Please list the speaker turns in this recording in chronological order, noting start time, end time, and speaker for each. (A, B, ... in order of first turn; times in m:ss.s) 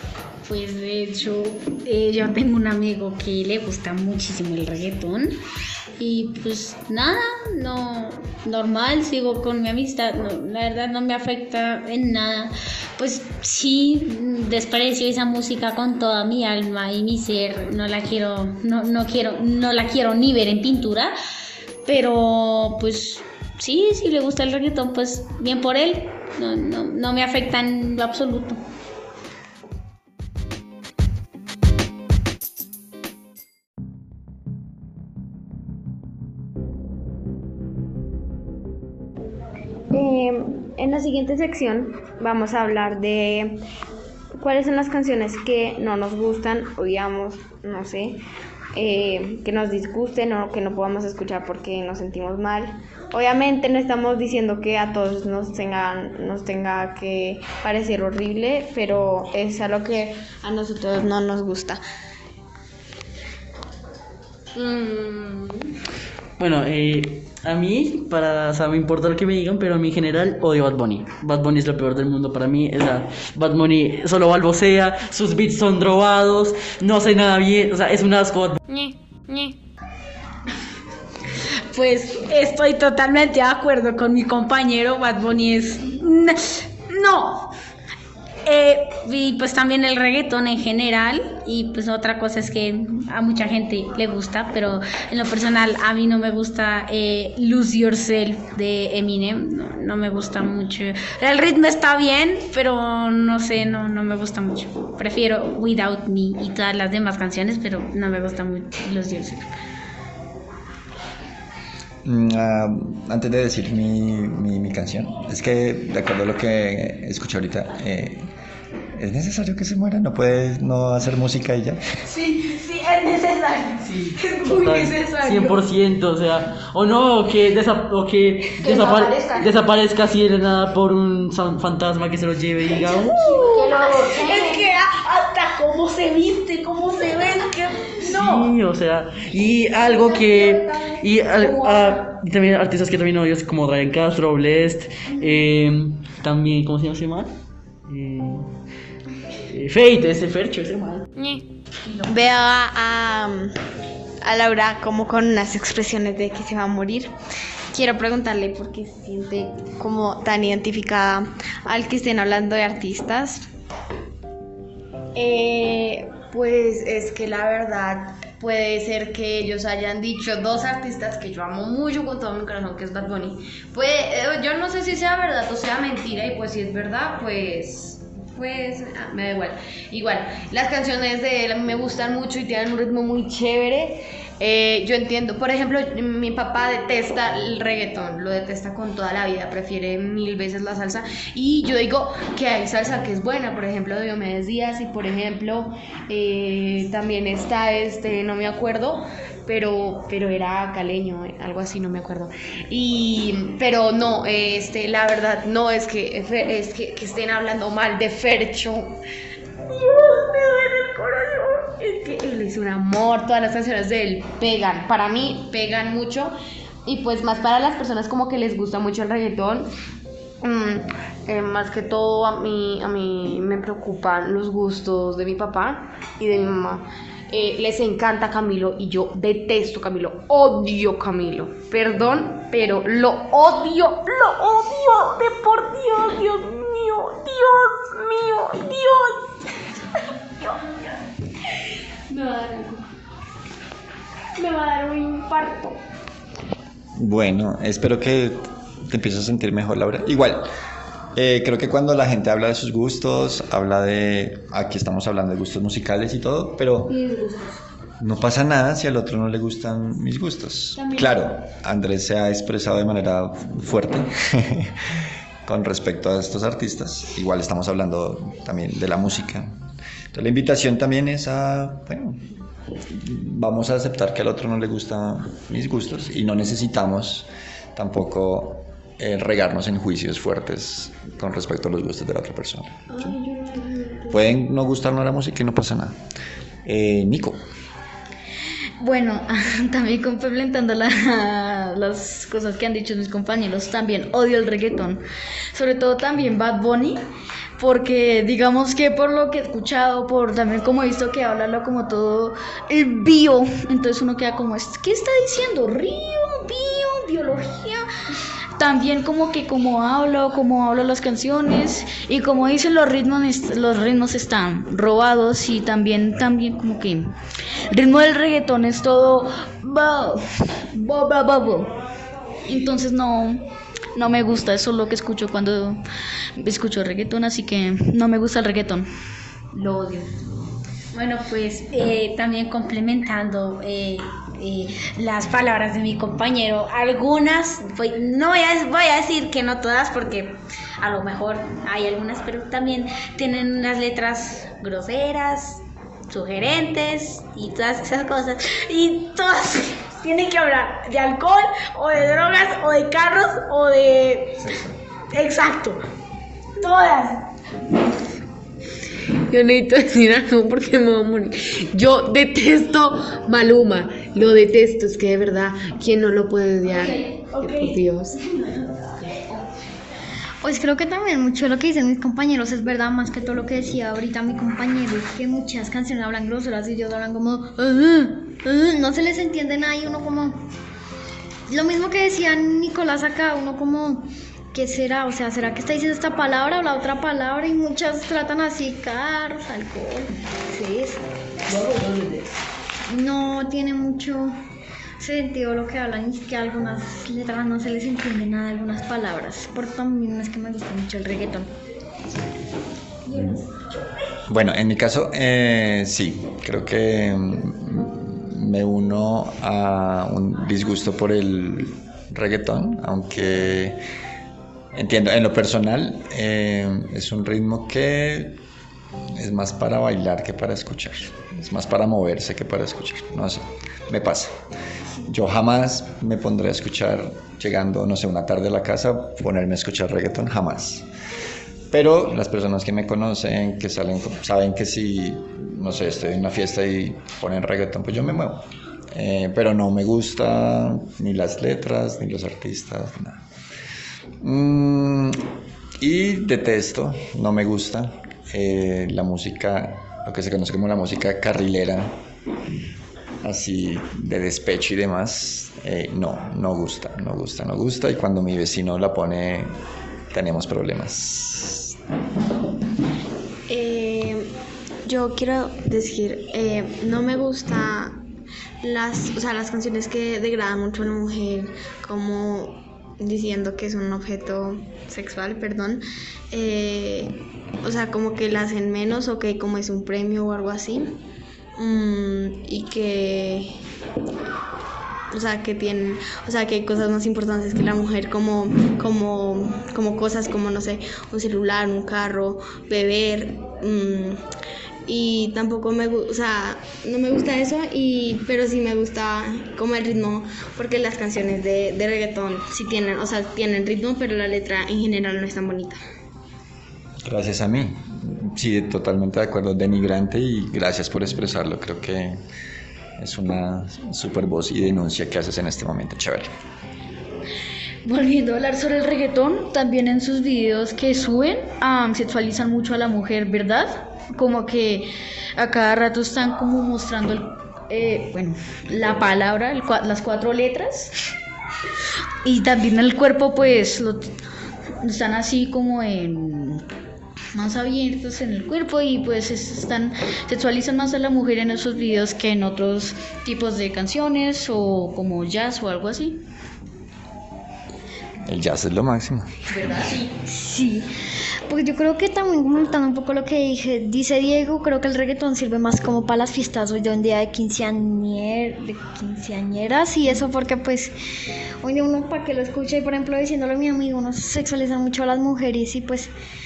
0:00.4-0:05.4 A
0:06.0-0:21.1 A
0:21.8-0:28.6 A
0:39.9-0:43.6 B
0:44.4-0:48.2 B
0:48.8-1:01.8 B
1:04.6-1:05.7 C
1:06.4-1:18.6 D
1:18.7-1:19.5 A
1:21.7-1:27.5 A
1:28.4-1:49.5 A
1:52.0-1:58.3 E
1:58.9-2:01.8 E
2:02.3-2:03.0 C
2:03.0-2:03.7 A
2:04.0-2:13.3 D
2:04.4-2:05.5 C
2:13.4-2:14.6 C
2:14.1-2:17.6 A
2:17.8-2:27.3 D
2:27.8-2:28.5 D
2:29.5-2:31.1 D
2:32.0-2:33.5 B
2:34.2-2:37.1 B
2:37.7-2:43.4 B
2:45.1-3:28.9 C
3:29.7-3:36.3 C
3:36.8-3:39.7 C
3:40.4-3:59.3 C
4:00.4-4:00.9 C
4:02.1-4:02.8 C
4:04.4-4:05.8 C
4:07.0-4:10.5 E
4:11.1-4:17.1 E
4:17.2-4:17.5 F
4:18.0-4:24.8 E
4:25.4-4:29.5 E
4:30.1-4:32.2 E
4:32.9-4:43.0 E
4:42.9-4:44.2 C
4:44.1-4:46.0 E
4:46.6-4:47.4 E
4:48.8-4:55.0 F
4:55.5-4:57.0 F
4:57.6-5:07.8 F
5:08.6-5:17.1 F
5:17.7-5:21.7 F
5:22.4-5:23.4 F
5:23.9-5:25.8 F
5:26.4-5:28.9 F
5:29.6-5:29.8 F
5:30.9-5:54.5 A
5:55.1-5:55.8 A
5:56.6-5:57.2 A
5:59.3-6:08.3 C
6:10.4-6:20.4 G
6:21.5-6:31.0 G
6:31.5-6:32.2 D
6:32.9-6:34.3 G
6:35.0-6:41.5 G
6:43.1-6:43.4 E
6:44.3-6:53.8 E
6:54.7-6:58.4 E
6:59.2-7:04.3 E
7:05.1-7:10.8 E
7:11.7-7:23.2 E
7:24.2-7:25.2 E
7:25.8-7:31.9 E
7:33.2-7:39.6 E
7:40.1-7:41.8 E
7:43.5-7:44.3 B
7:44.8-7:48.0 B
7:48.6-8:01.0 B
8:01.6-8:03.6 B
8:05.1-8:14.2 B
8:14.9-8:25.8 B
8:27.0-8:32.2 E
8:33.0-8:36.3 E
8:37.8-8:50.9 F
8:52.2-8:54.0 F
8:54.8-8:56.6 F
8:57.3-9:06.2 F
9:08.2-9:09.3 E
9:10.2-9:10.8 G
9:11.5-9:20.9 G
9:21.6-9:26.1 G